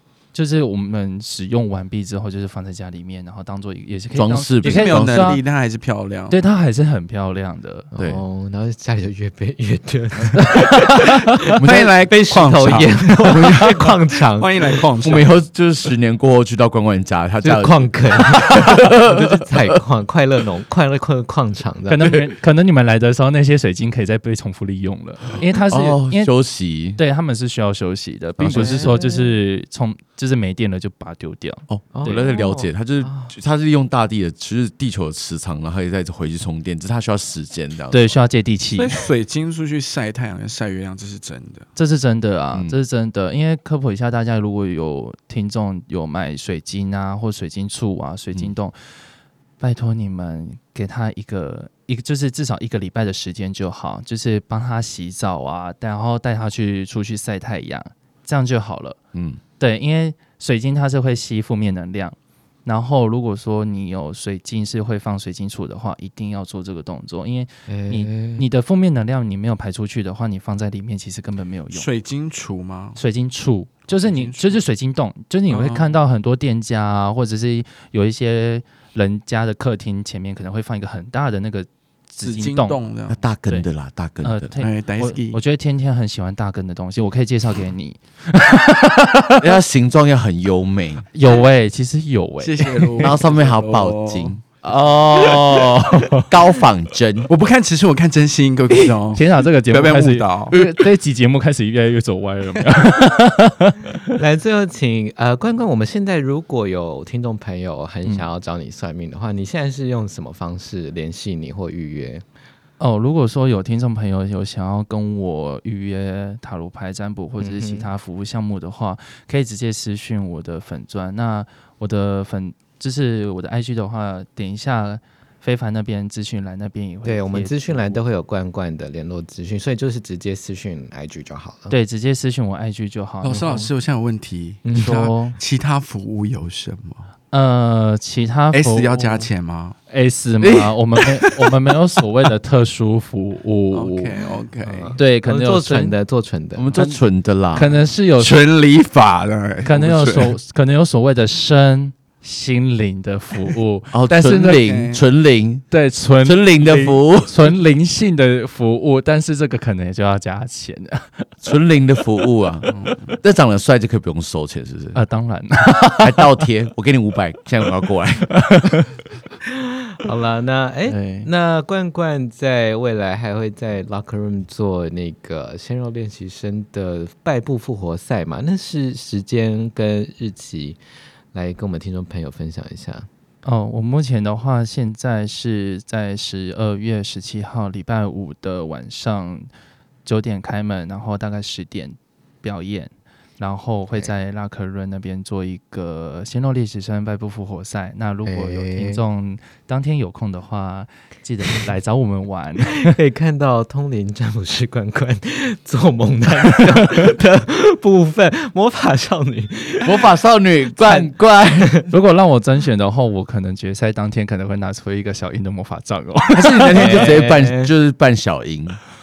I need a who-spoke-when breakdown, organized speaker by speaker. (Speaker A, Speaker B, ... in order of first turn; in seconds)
Speaker A: 0.3-5.4, 6.3-7.9, 10.4-11.2, 21.9-26.3, 26.9-32.3, 37.9-38.9, 41.8-48.8, 49.6-59.0, 59.6-71.9, 73.0-82.8, 84.2-89.4, 91.1-93.1, 94.7-96.3, 99.1-104.2, 112.8-128.0, 131.7-133.7, 134.7-135.4, 137.3-139.3, 139.9-144.2, 144.9-145.9, 146.7-147.0, 147.5-148.4, 149.6-154.6, 155.7-161.3, 164.9-166.2, 168.5-168.8, 170.9-171.3, 183.4-189.5, 190.0-202.9, 211.9-217.1
Speaker B: 4.1-5.4, 8.0-8.2, 11.6-11.9, 12.7-13.9, 15.0-19.7, 25.7-27.0, 28.4-28.9, 31.7-38.2, 59.1-59.4, 83.1-84.5, 89.4-91.0, 93.0-97.3, 146.5-147.7, 153.9-155.7, 156.2-157.5, 161.4-165.0, 166.0-168.7, 209.8-211.8, 216.3-218.8
Speaker C: 4.6-6.4, 10.9-15.3, 38.7-41.6, 71.7-73.0, 73.9-74.6, 75.5-76.0, 82.2-83.2, 84.6-85.4, 92.4-94.4, 97.3-100.6, 133.2-137.1, 138.5-139.8, 143.7-144.9, 148.2-150.3, 154.6-155.0, 162.7-163.1
Speaker D: 7.9-14.8, 17.4-22.2, 28.5-29.4, 31.9-33.3, 67.7-68.4, 104.2-112.2, 117.4-117.9, 127.0-131.7, 133.3-133.6, 134.6-135.0, 144.6-146.8, 169.7-180.8, 181.3-183.1, 198.2-199.0, 202.7-210.1, 210.7-211.9, 216.7-217.7